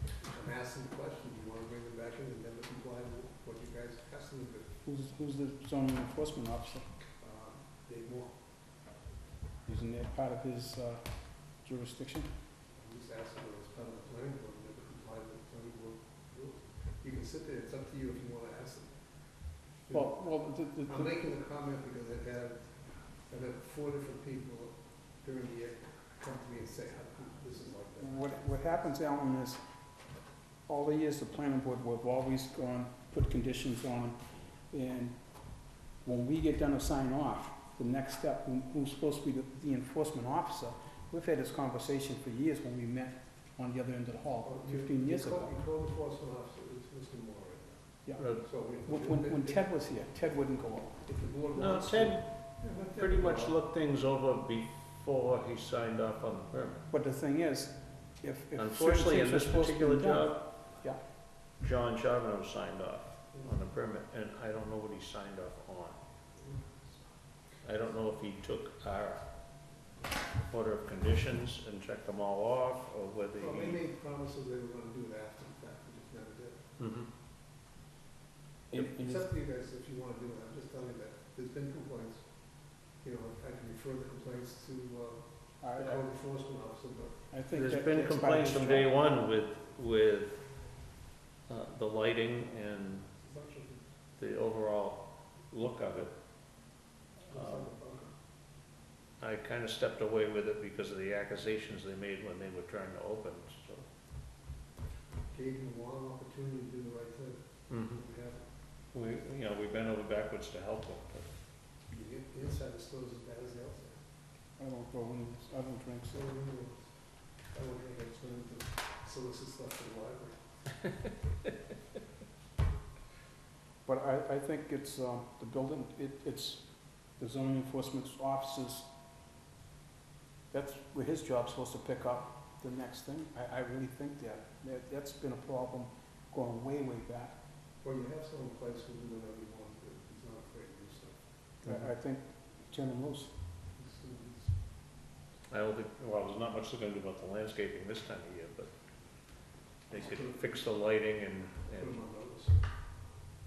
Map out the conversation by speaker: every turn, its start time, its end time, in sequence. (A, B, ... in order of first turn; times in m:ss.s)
0:00.2-0:04.7 A
0:04.8-0:06.9 B
0:07.2-0:08.3 A
0:09.6-0:12.3 B
0:12.8-0:19.0 A
0:19.9-0:20.2 A
0:19.9-0:21.2 B
0:20.9-0:28.9 A
0:28.0-0:29.6 B
0:30.7-0:34.2 B
0:34.7-0:45.5 B
0:44.4-0:49.7 A
0:48.0-0:51.1 B
0:48.2-0:48.4 C
0:51.0-0:53.6 A
0:51.6-0:56.8 C
0:56.9-1:01.0 B
0:58.6-1:00.5 C
1:01.6-1:06.0 C
1:06.4-1:06.7 A
1:07.6-1:09.3 C
1:10.5-1:13.8 C
1:13.4-1:16.7 A
1:16.8-1:17.1 C
1:18.7-1:19.3 B
1:18.7-1:22.3 A
1:23.0-1:27.3 A
1:25.6-1:26.0 B
1:27.3-1:28.9 B
1:27.5-1:30.5 C
1:31.5-1:33.1 C
1:33.1-1:33.8 A
1:34.2-1:36.1 C
1:37.3-1:38.1 A
1:37.3-1:37.7 C
1:39.2-1:43.8 C
1:45.3-1:48.4 A
1:47.7-1:48.0 C
1:48.9-1:51.3 C
1:51.9-1:54.0 A
1:54.6-1:56.3 B
1:56.1-1:56.8 A
1:57.5-2:00.4 A
2:03.8-2:08.9 B
2:10.5-2:17.4 B
2:17.8-2:21.2 A
2:21.6-2:23.3 B
2:23.8-2:24.5 A
2:25.5-2:28.7 C
2:29.9-2:32.0 C
2:30.0-2:30.4 A
2:31.8-2:32.6 A